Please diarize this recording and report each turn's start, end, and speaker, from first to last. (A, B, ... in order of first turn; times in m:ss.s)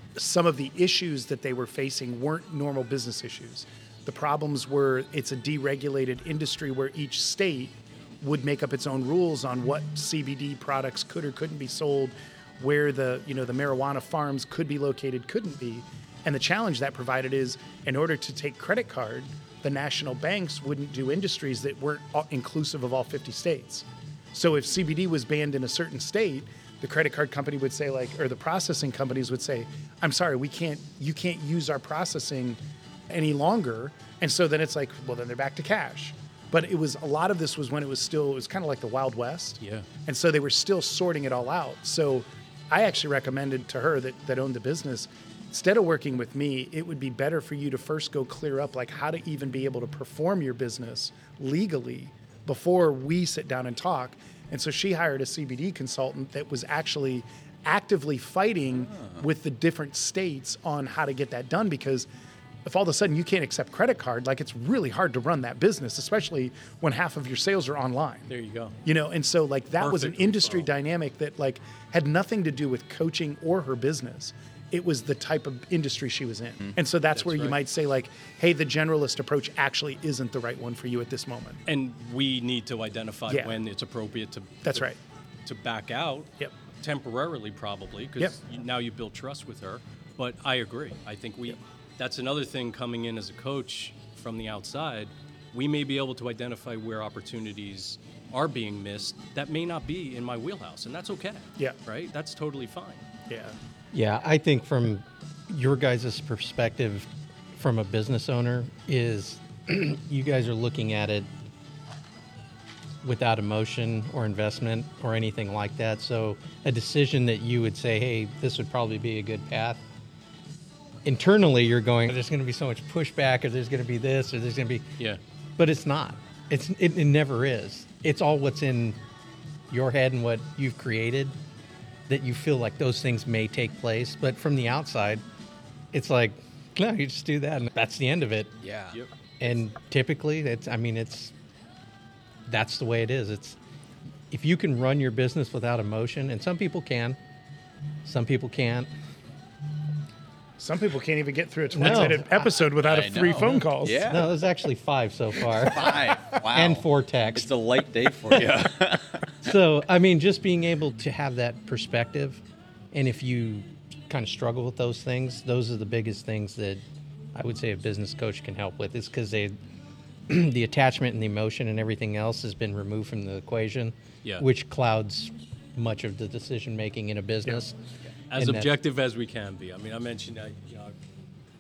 0:00.1-1:02.1 A
0:39.6-0:39.9 B
0:58.9-0:59.2 C
1:02.6-1:08.3 A
1:08.3-1:08.8 B
1:08.9-1:21.6 A
1:09.8-1:10.7 B
1:17.1-1:17.6 B
1:21.7-1:24.9 B
1:23.3-1:23.6 A
1:24.6-1:25.0 A
1:25.4-1:43.0 B
1:43.3-1:43.6 A
1:43.9-1:51.3 D
1:53.0-1:59.8 D
2:01.0-2:04.9 D
2:05.6-2:09.0 D
2:09.7-2:11.4 D
2:12.1-2:15.2 D
2:15.9-2:18.5 D
2:18.6-2:19.0 C
2:19.4-2:21.3 D
2:22.5-2:23.6 D
2:24.3-2:27.2 D
2:28.0-2:28.9 D
2:30.6-2:34.0 A
2:31.7-2:32.5 D
2:31.9-2:34.3 C
2:33.4-2:37.5 D
2:35.5-2:39.4 C
2:38.3-2:38.8 D
2:39.4-2:46.8 D
2:47.4-2:49.6 D
2:50.3-2:57.8 D
2:58.3-3:00.9 B
2:58.4-2:58.7 D